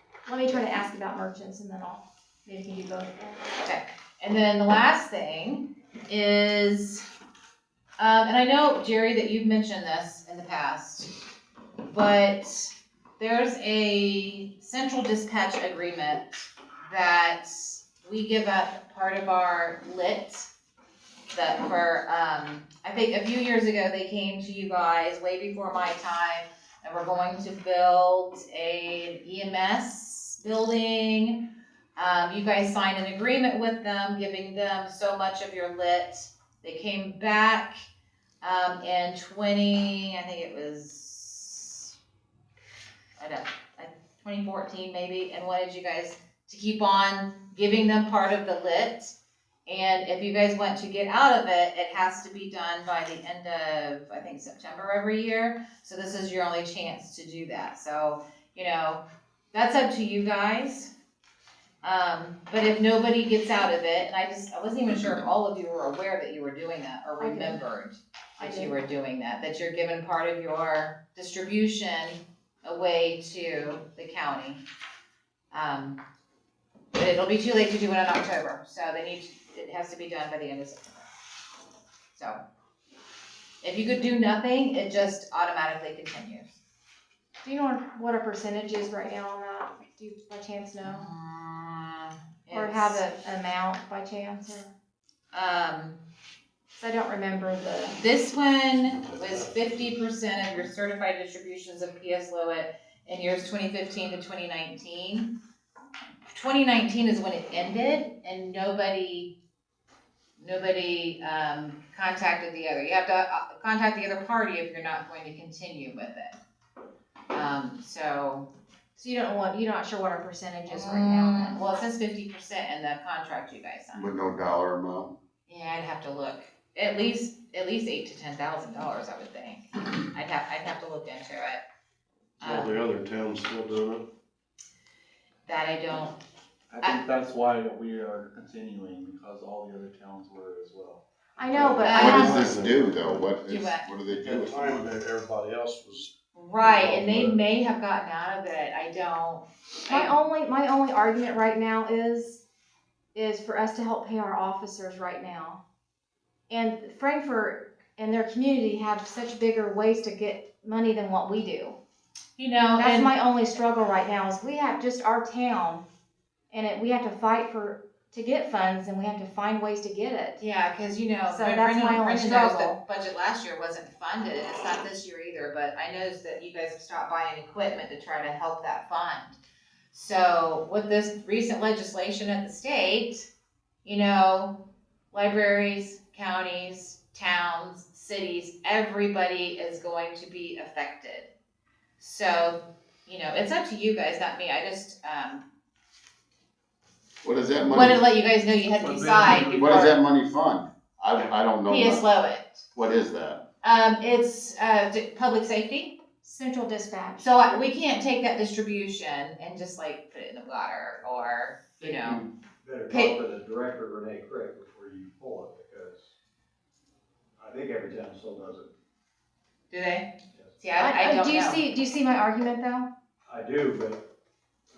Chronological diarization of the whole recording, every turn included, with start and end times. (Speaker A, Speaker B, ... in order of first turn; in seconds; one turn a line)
Speaker A: 0.3-3.4
Speaker B: 3.6-7.0
Speaker B: 8.0-11.1
Speaker B: 11.9-20.5
Speaker B: 21.3-37.8
Speaker B: 38.4-41.9
Speaker B: 43.2-49.1
Speaker B: 49.7-60.9
Speaker B: 61.8-74.6
Speaker A: 67.2-67.6
Speaker A: 68.4-68.7
Speaker B: 75.5-76.0
Speaker B: 76.9-81.0
Speaker B: 82.1-82.4
Speaker B: 83.6-86.5
Speaker A: 87.4-91.1
Speaker B: 90.8-93.0
Speaker A: 92.5-94.7
Speaker B: 95.3-96.0
Speaker A: 96.8-98.0
Speaker B: 97.9-105.4
Speaker B: 106.3-109.3
Speaker B: 110.4-116.4
Speaker B: 117.3-118.5
Speaker A: 119.0-121.6
Speaker B: 120.7-124.1
Speaker C: 123.9-125.1
Speaker B: 125.5-131.6
Speaker B: 132.4-132.8
Speaker D: 132.4-134.0
Speaker B: 135.5-136.2
Speaker E: 136.7-141.7
Speaker A: 141.4-142.6
Speaker B: 141.8-142.5
Speaker C: 141.9-144.9
Speaker D: 142.3-142.7
Speaker F: 142.5-143.1
Speaker B: 143.4-143.9
Speaker D: 144.5-146.1
Speaker B: 146.3-150.1
Speaker F: 146.6-147.3
Speaker A: 149.8-152.4
Speaker A: 153.1-155.6
Speaker A: 156.5-161.8
Speaker B: 162.4-163.1
Speaker A: 162.8-165.8
Speaker A: 166.5-170.4
Speaker B: 170.4-179.4
Speaker A: 171.3-172.8
Speaker B: 179.9-183.3
Speaker B: 183.8-191.3
Speaker B: 192.0-195.5
Speaker C: 197.2-198.0
Speaker B: 197.7-199.9
Speaker E: 198.8-200.0
Speaker C: 199.5-202.0
Speaker B: 201.7-202.6
Speaker C: 202.7-203.4
Speaker B: 203.6-206.0
Speaker A: 206.2-207.3
Speaker B: 207.2-212.2
Speaker F: 211.8-216.1
Speaker B: 212.9-213.2
Speaker F: 217.4-218.7
Speaker B: 219.7-221.6
Speaker A: 220.7-222.9
Speaker F: 223.2-224.0